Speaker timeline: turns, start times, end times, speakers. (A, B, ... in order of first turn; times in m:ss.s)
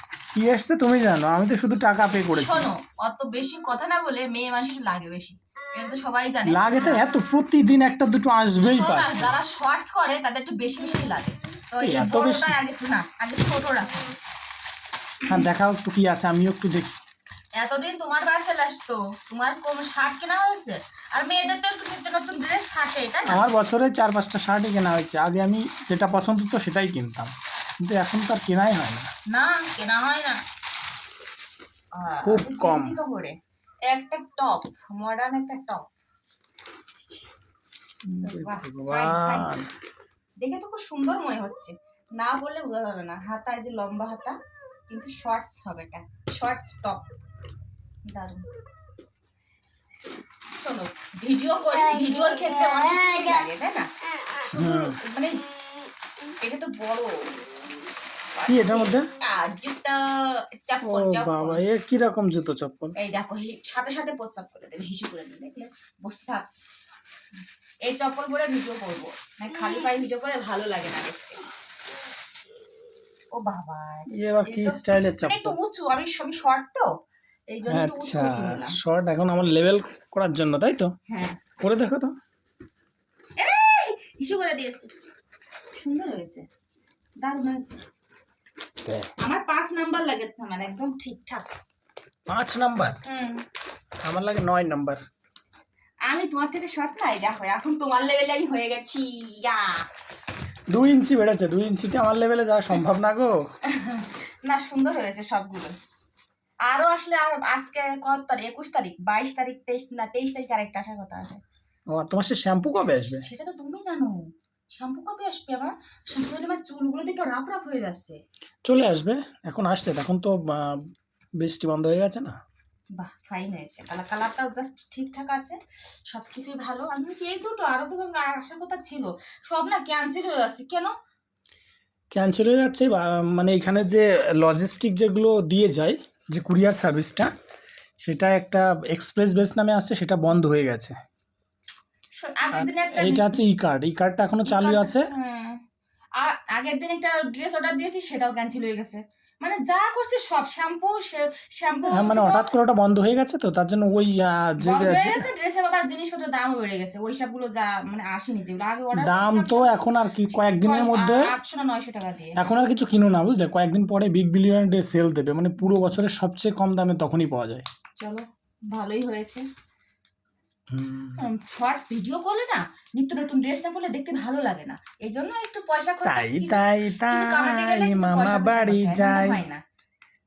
0:00.3-0:02.7 A
0:02.3-0:07.0 B
0:06.4-0:09.3 A
0:08.6-0:14.2 B
0:11.8-0:12.6 A
0:15.2-0:17.0 A
0:17.5-0:23.4 B
0:23.2-0:29.1 A
0:29.3-0:30.4 B
0:31.9-0:33.3 B
0:32.2-0:33.0 A
0:33.9-0:35.8 B
0:38.1-0:39.7 A
0:38.2-0:39.6 B
0:40.4-0:44.4 B
0:44.9-0:47.0 B
0:48.1-0:48.4 B
0:50.6-0:53.9 B
0:54.5-0:55.4 B
0:54.5-0:55.0 A
0:56.4-0:57.3 B
0:58.3-1:01.6 B
0:58.5-0:59.1 A
1:00.8-1:03.0 A
1:03.0-1:06.4 B
1:07.8-1:11.4 B
1:13.3-1:16.9 B
1:14.1-1:15.5 A
1:17.5-1:18.8 B
1:17.7-1:20.9 A
1:21.1-1:21.4 B
1:21.6-1:22.1 A
1:23.4-1:24.9 B
1:25.8-1:26.4 B
1:27.2-1:27.8 B
1:29.2-1:31.5 B
1:32.3-1:33.0 A
1:33.0-1:33.4 B
1:34.0-1:35.0 A
1:36.0-1:39.8 B
1:40.7-1:43.4 A
1:43.6-1:45.7 B
1:46.7-1:51.4 B
1:51.9-1:53.2 A
1:53.2-1:58.2 B
1:58.6-2:00.9 A
2:01.4-2:02.4 A
2:02.9-2:05.6 B
2:06.1-2:10.9 B
2:12.1-2:17.3 A
2:18.0-2:21.0 A
2:22.2-2:23.4 B
2:22.5-2:25.0 A
2:24.4-2:25.6 B
2:26.2-2:32.5 B
2:31.9-2:35.3 A
2:34.6-2:42.5 B
2:38.9-2:41.3 A
2:42.4-2:47.6 A
2:48.0-2:49.4 B
2:50.7-2:51.2 A
2:51.2-2:59.6 B
2:56.0-2:59.4 A